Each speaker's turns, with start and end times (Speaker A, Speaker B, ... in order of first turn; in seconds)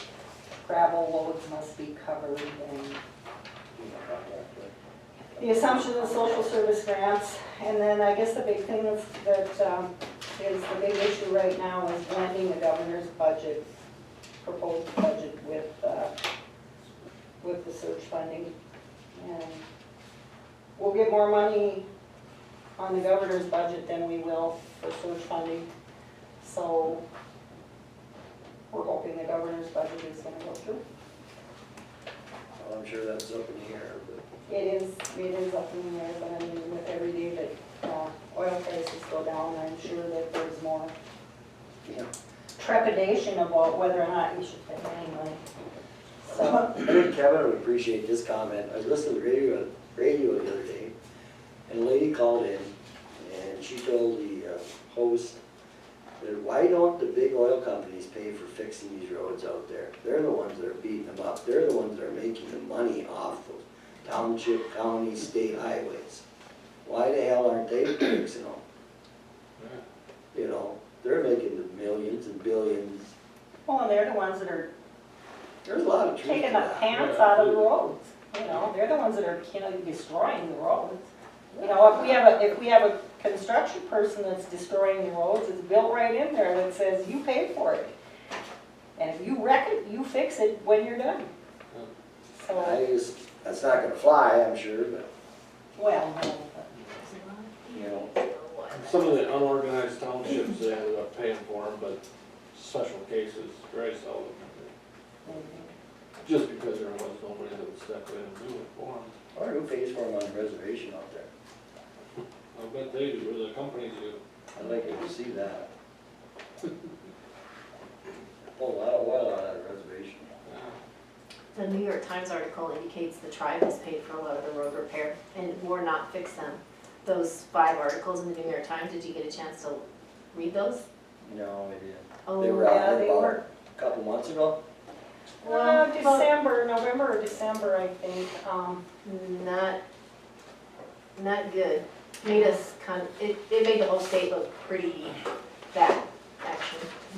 Speaker A: 0.5-3.0, 5.4-13.6, 14.4-16.1, 17.4-18.5, 19.1-19.6, 20.8-21.8, 22.8-25.7, 26.4-27.0, 28.7-30.8, 34.5-40.9, 42.6-45.4, 46.2-46.8, 73.7-74.7, 76.2-81.0, 81.6-87.9, 89.0-91.3, 92.3-92.8, 95.8-96.8, 105.2-105.7, 132.6-133.4, 135.4-138.8
Speaker B: 3.7-4.7, 32.6-34.2, 46.3-50.9, 51.7-55.4, 56.2-66.2, 66.8-68.6, 70.3-73.1, 75.6-76.9, 92.5-95.1, 97.7-98.1, 109.3-111.3, 114.5-115.7, 118.5-120.3, 131.2-134.6
Speaker C: 77.0-77.7, 98.7-104.7, 106.2-109.1, 112.5-114.2, 120.5-120.7
Speaker D: 97.1-99.4, 121.5-130.8, 132.2-132.9, 135.4-136.3, 139.0-139.8, 141.1-146.9